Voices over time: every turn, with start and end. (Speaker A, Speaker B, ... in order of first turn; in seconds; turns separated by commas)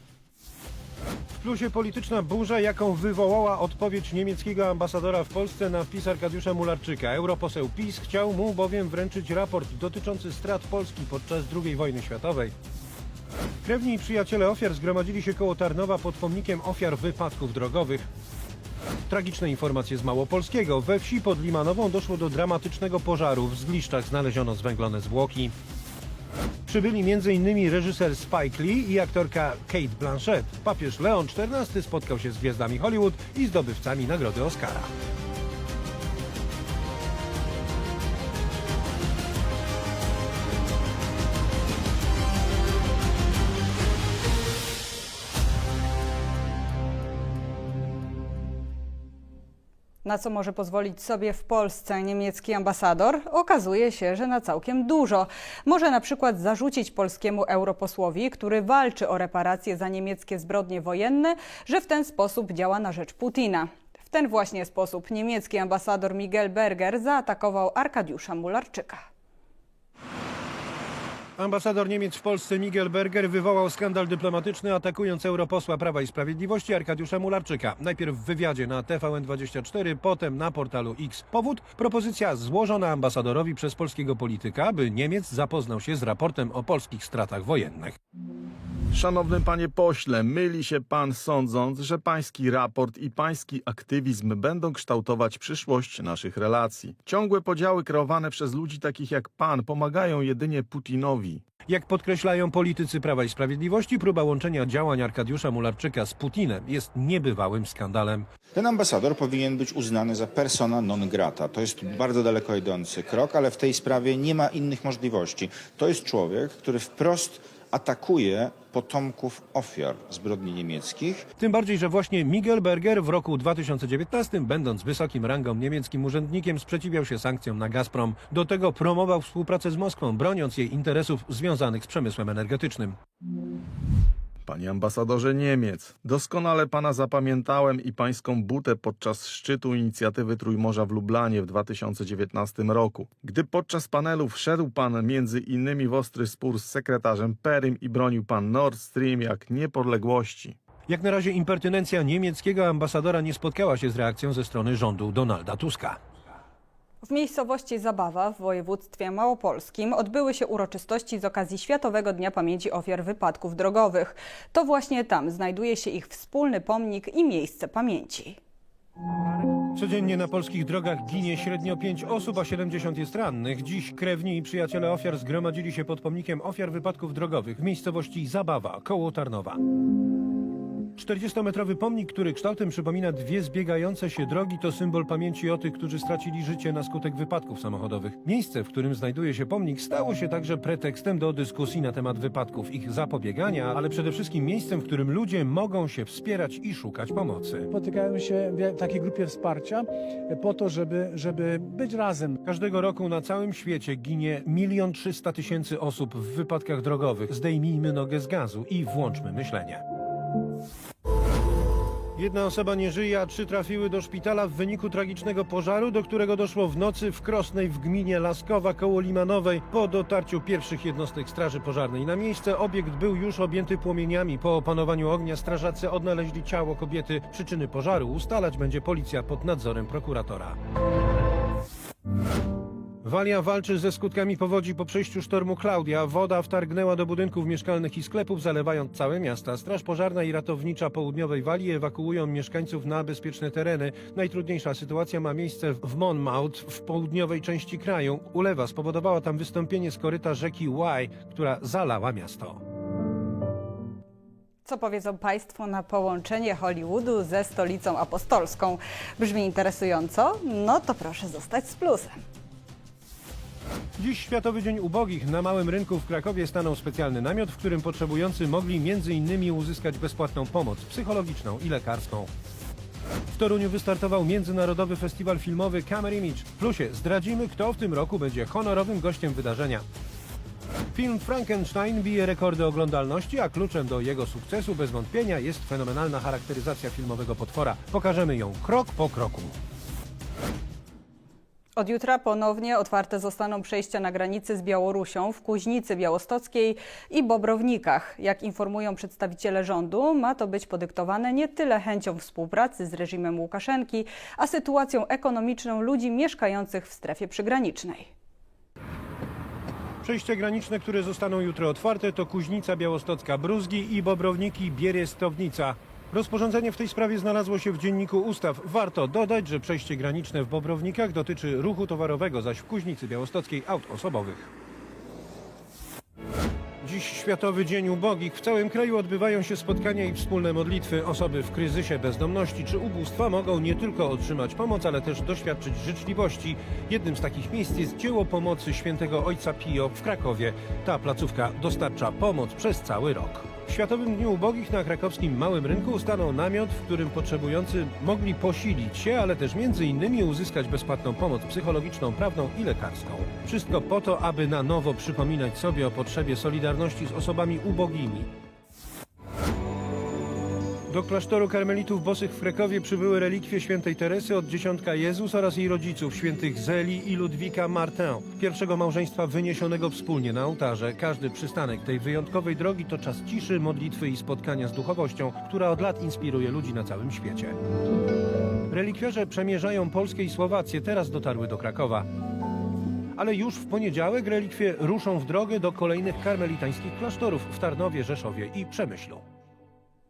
Speaker A: 1.3-12.5, Speaker A: 13.6-18.0, Speaker A: 19.1-25.5, Speaker A: 26.6-34.9, Speaker B: 50.0-69.0, Speaker A: 71.4-88.0, Speaker C: 88.9-101.4, Speaker A: 101.7-108.3, Speaker D: 108.5-121.3, Speaker A: 121.4-133.0, Speaker C: 134.4-150.6, Speaker A: 150.9-156.0, Speaker B: 157.0-168.4, Speaker A: 169.7-179.6, Speaker A: 180.9-197.7, Speaker E: 197.7-202.4, Speaker A: 202.4-209.8, Speaker A: 212.2-230.6, Speaker A: 233.0-252.6, Speaker B: 254.6-262.1, Speaker A: 264.0-272.3, Speaker A: 273.3-279.8, Speaker A: 280.9-289.5, Speaker B: 291.8-308.1, Speaker A: 310.0-324.5, Speaker A: 326.8-358.3, Speaker A: 360.9-377.6, Speaker A: 378.7-382.0, Speaker A: 383.1-389.2